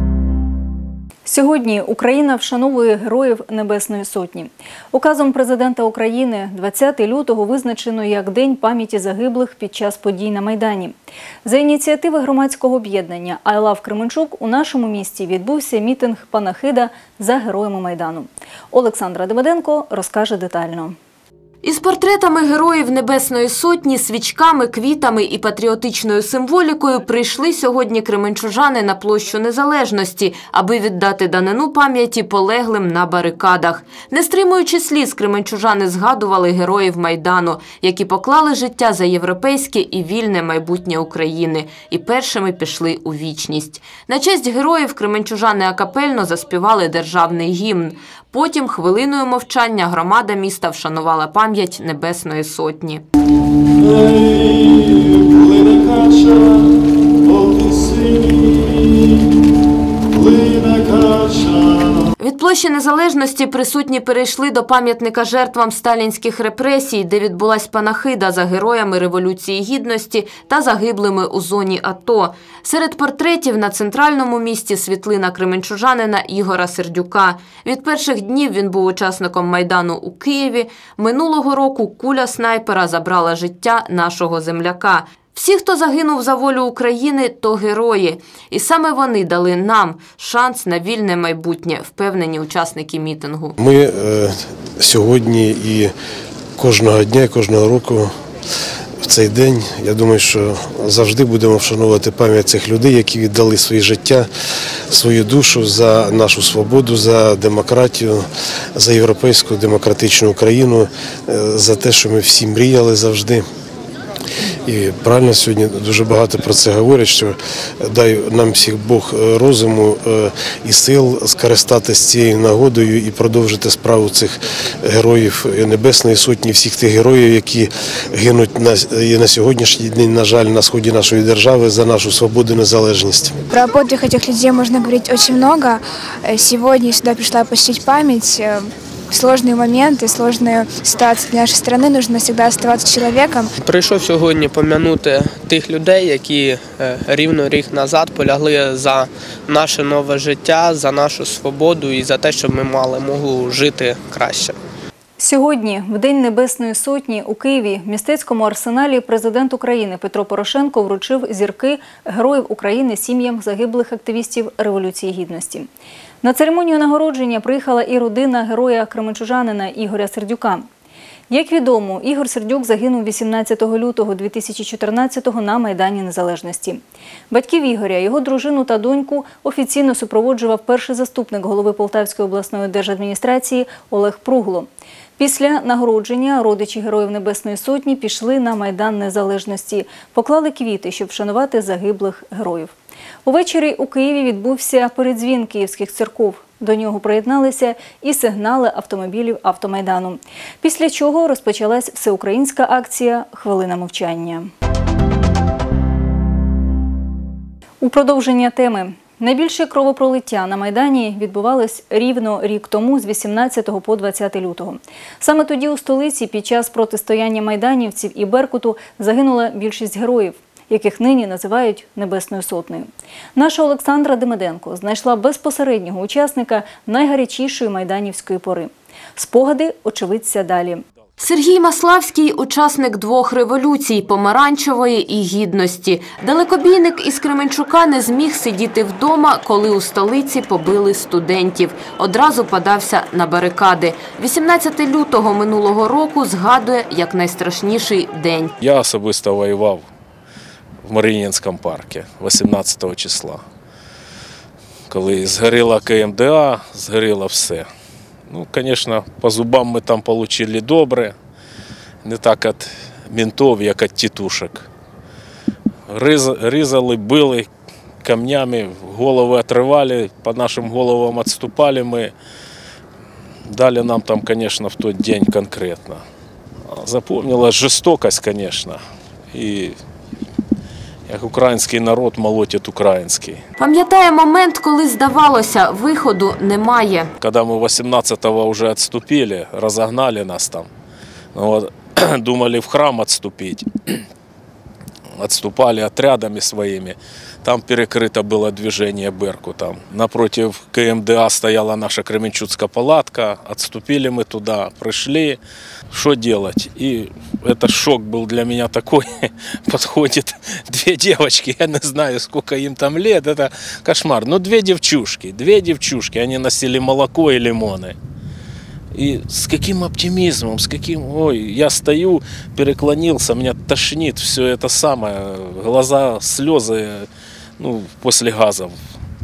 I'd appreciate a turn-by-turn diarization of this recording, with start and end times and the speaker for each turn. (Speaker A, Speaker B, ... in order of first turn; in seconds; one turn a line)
Speaker A: 1.2-21.0
Speaker B: 21.6-53.0
Speaker C: 53.9-56.6
Speaker C: 57.3-58.8
Speaker C: 60.2-62.0
Speaker B: 62.2-93.6
Speaker D: 93.6-95.9
Speaker D: 96.6-98.1
Speaker D: 99.0-104.3
Speaker D: 104.9-113.4
Speaker D: 114.7-133.4
Speaker E: 133.5-143.5
Speaker F: 143.6-154.6
Speaker A: 155.2-165.7
Speaker A: 166.2-170.7
Speaker A: 171.3-192.7
Speaker A: 193.2-204.5
Speaker A: 207.8-230.8
Speaker B: 231.2-248.5
Speaker C: 248.6-249.8
Speaker C: 250.8-253.4
Speaker C: 254.9-257.7
Speaker C: 258.3-261.1
Speaker C: 262.0-264.7
Speaker C: 265.9-267.5
Speaker C: 268.0-272.1
Speaker C: 273.5-276.0
Speaker C: 276.7-278.8
Speaker C: 279.3-279.8
Speaker C: 281.1-283.4
Speaker B: 283.6-287.1
Speaker C: 287.2-290.7
Speaker C: 291.3-294.0
Speaker C: 295.2-305.4
Speaker C: 305.9-318.0
Speaker C: 318.9-327.1
Speaker C: 327.6-328.8